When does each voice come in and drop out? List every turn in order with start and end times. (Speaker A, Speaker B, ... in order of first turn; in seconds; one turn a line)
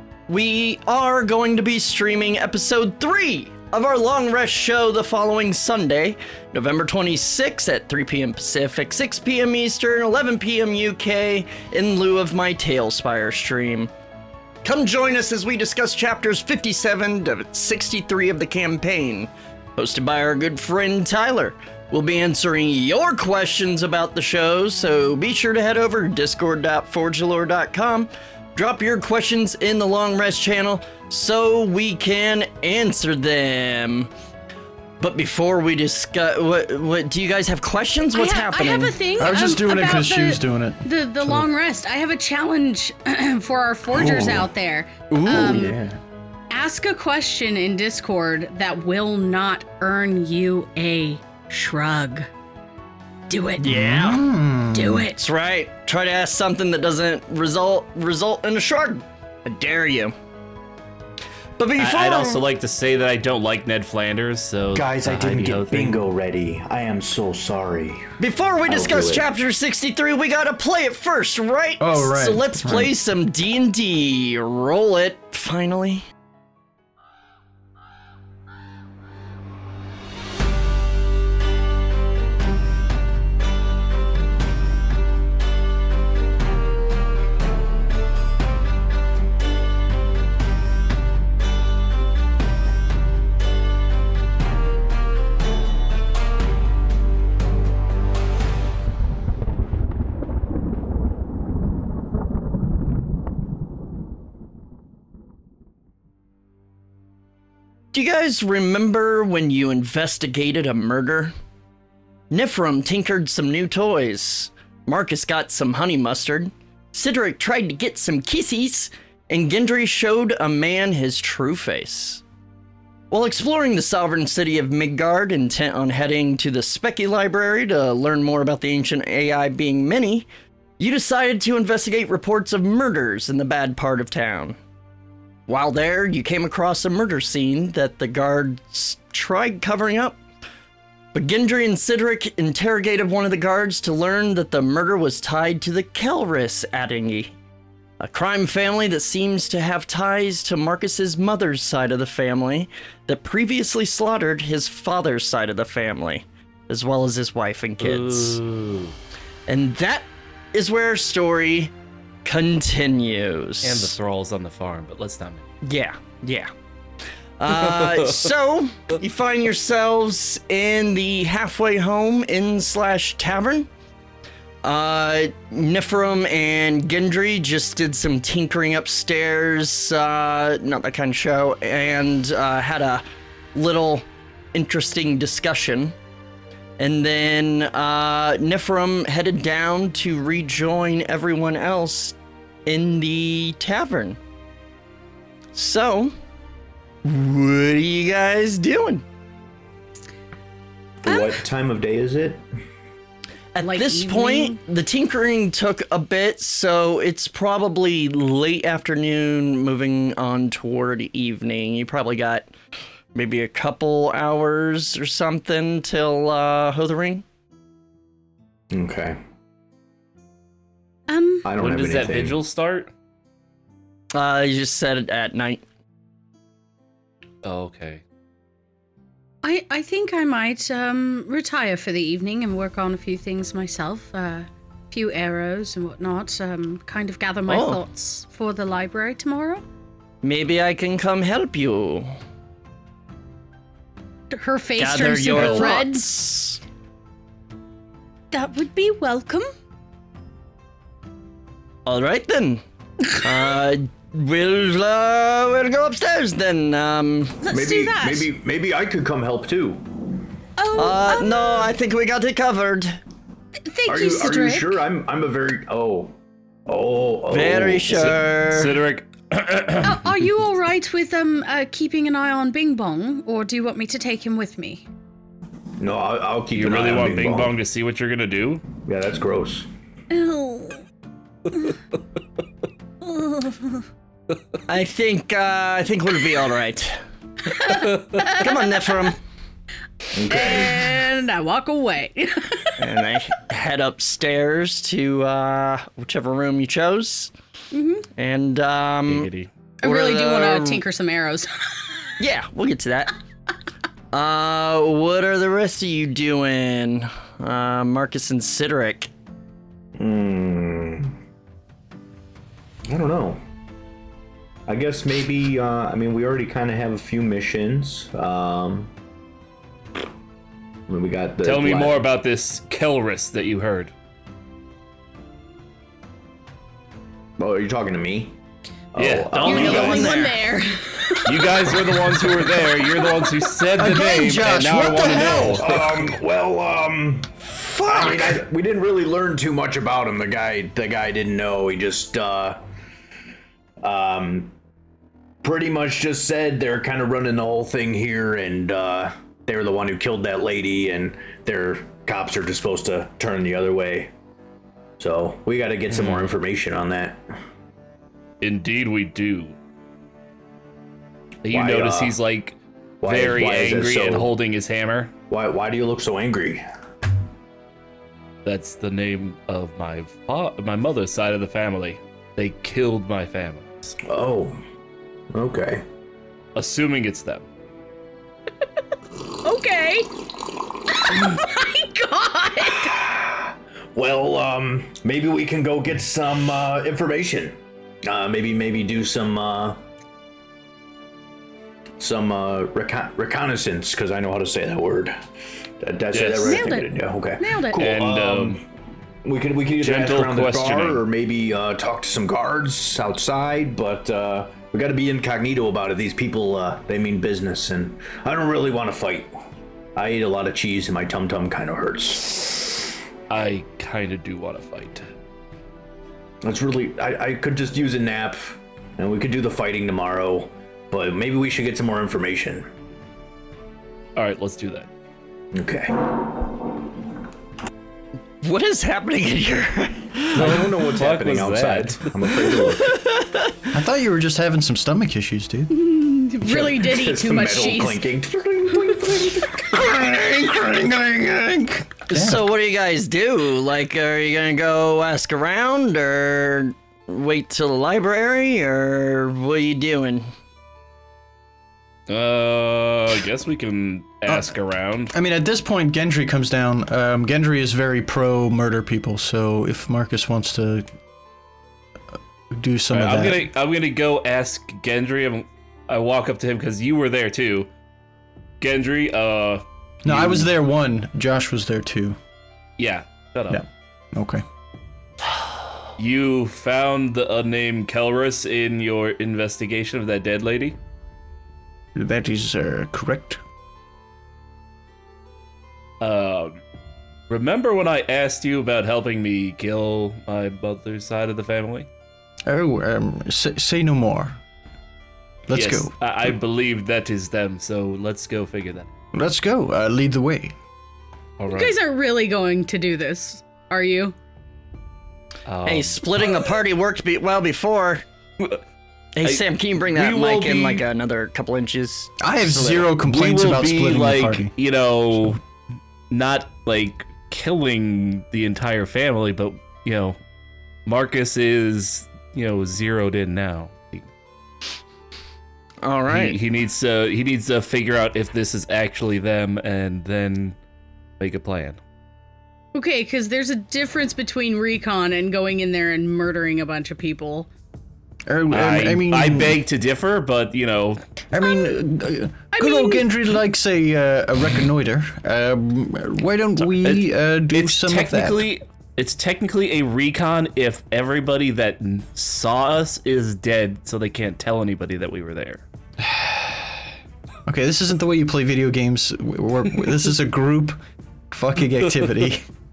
Speaker A: 0.3-13.9
Speaker A: 14.6-34.1
Speaker A: 35.0-39.0
Speaker B: 38.1-45.8
Speaker C: 39.2-41.5
Speaker C: 43.9-44.3
Speaker C: 45.1-45.8
Speaker D: 45.2-45.9
Speaker B: 46.5-52.3
Speaker B: 53.3-53.7
Speaker A: 53.6-54.2
Speaker C: 53.7-55.1
Speaker B: 54.7-55.2
Speaker A: 55.1-60.1
Speaker A: 61.6-62.4
Speaker E: 61.8-66.1
Speaker D: 64.7-68.1
Speaker A: 68.2-76.0
Speaker D: 68.6-69.3
Speaker C: 71.8-72.9
Speaker A: 107.9-111.3
Speaker A: 112.3-122.2
Speaker A: 123.1-130.3
Speaker A: 130.8-134.6
Speaker A: 135.5-140.2
Speaker A: 141.1-147.3
Speaker A: 148.0-158.4
Speaker E: 157.8-158.9
Speaker A: 159.5-161.7
Speaker A: 162.2-164.0
Speaker E: 163.6-165.4
Speaker A: 165.6-166.5
Speaker A: 167.4-173.7
Speaker E: 167.5-168.3
Speaker A: 174.6-183.0
Speaker A: 183.5-185.9
Speaker A: 186.8-194.2
Speaker A: 195.5-196.1
Speaker A: 197.0-199.0
Speaker D: 201.0-202.4
Speaker B: 201.1-201.4
Speaker A: 203.5-212.5
Speaker B: 203.6-204.6
Speaker A: 213.1-217.2
Speaker D: 218.7-219.2
Speaker B: 221.1-221.5
Speaker D: 221.4-222.4
Speaker E: 221.6-222.9
Speaker A: 224.1-225.6
Speaker E: 227.4-228.0
Speaker B: 229.4-239.6
Speaker A: 237.5-237.8
Speaker A: 240.2-242.1
Speaker B: 244.3-246.1
Speaker A: 244.8-246.6
Speaker B: 248.3-249.5
Speaker A: 251.8-252.6
Speaker A: 253.2-257.4
Speaker B: 257.4-258.3
Speaker D: 257.5-259.8
Speaker B: 260.6-261.7
Speaker A: 260.7-263.0
Speaker B: 263.7-264.8
Speaker D: 263.9-266.1
Speaker D: 266.7-268.1
Speaker A: 267.3-268.8
Speaker E: 267.9-270.2
Speaker B: 269.8-274.8
Speaker D: 275.8-277.5
Speaker E: 276.5-278.6
Speaker D: 278.8-279.7
Speaker B: 280.1-280.8
Speaker B: 283.0-283.8
Speaker A: 284.7-287.0
Speaker B: 287.5-289.1
Speaker A: 288.2-289.2
Speaker D: 290.1-290.9
Speaker B: 290.3-292.8
Speaker A: 292.8-297.3
Speaker B: 297.7-298.1
Speaker A: 298.1-299.3
Speaker E: 299.1-299.5
Speaker B: 299.8-301.9
Speaker A: 299.8-300.8
Speaker A: 302.2-303.1
Speaker A: 304.1-309.1
Speaker D: 310.0-311.1
Speaker D: 312.9-313.4
Speaker D: 314.7-318.9
Speaker D: 320.9-322.0
Speaker E: 321.4-323.9
Speaker D: 327.4-328.4
Speaker D: 328.9-330.1
Speaker E: 329.0-330.1
Speaker A: 329.3-330.6
Speaker B: 329.4-332.0
Speaker E: 331.2-335.8
Speaker B: 332.6-333.4
Speaker C: 333.8-335.7
Speaker D: 335.4-337.4
Speaker A: 337.6-338.4
Speaker D: 337.9-342.6
Speaker D: 343.8-344.5
Speaker D: 345.4-354.1
Speaker D: 355.0-357.2
Speaker E: 355.9-356.3
Speaker E: 358.4-359.6
Speaker E: 361.4-365.1
Speaker D: 361.5-362.1
Speaker D: 363.0-364.3
Speaker D: 365.3-366.6
Speaker E: 368.4-373.9
Speaker D: 374.1-374.6
Speaker D: 375.3-375.8
Speaker E: 376.5-377.4
Speaker B: 379.4-380.1
Speaker B: 380.9-382.9
Speaker D: 382.7-389.8
Speaker D: 392.0-395.2
Speaker D: 395.8-398.6
Speaker E: 396.1-396.6
Speaker B: 396.3-397.9
Speaker E: 397.7-398.6
Speaker D: 399.2-409.3
Speaker E: 399.8-401.0
Speaker D: 409.9-412.8
Speaker E: 413.3-415.1
Speaker D: 416.4-422.7
Speaker E: 424.1-424.9
Speaker D: 425.5-426.5
Speaker A: 428.4-430.6
Speaker D: 430.3-433.0
Speaker E: 430.4-432.1
Speaker A: 432.9-433.5
Speaker C: 433.7-435.7
Speaker B: 435.7-438.0
Speaker D: 436.4-439.8
Speaker C: 439.7-442.4
Speaker A: 442.1-450.3
Speaker E: 452.1-455.1
Speaker C: 454.3-454.5
Speaker C: 455.1-460.9
Speaker C: 462.5-463.5
Speaker E: 462.9-467.7
Speaker E: 468.6-470.5
Speaker C: 470.0-472.2
Speaker E: 472.8-473.6
Speaker C: 473.5-474.4
Speaker E: 476.0-480.8
Speaker C: 481.9-483.4
Speaker E: 486.0-486.6
Speaker E: 487.3-491.9
Speaker C: 492.5-494.4
Speaker C: 495.5-495.9
Speaker E: 495.5-498.9
Speaker C: 499.1-500.5
Speaker E: 501.4-501.8
Speaker B: 501.5-504.1
Speaker E: 505.5-506.5
Speaker A: 505.6-508.0
Speaker A: 509.1-512.1
Speaker E: 509.2-510.8
Speaker C: 512.2-514.5
Speaker E: 512.6-515.4
Speaker E: 516.1-520.2
Speaker E: 520.9-524.1
Speaker A: 525.8-526.4
Speaker E: 526.1-530.6
Speaker E: 531.2-531.8
Speaker B: 532.7-537.5
Speaker C: 538.3-539.6
Speaker E: 538.5-541.0
Speaker C: 541.3-548.4
Speaker B: 542.5-543.0
Speaker E: 546.7-555.6
Speaker C: 556.0-556.8
Speaker C: 557.5-560.8
Speaker C: 561.3-562.5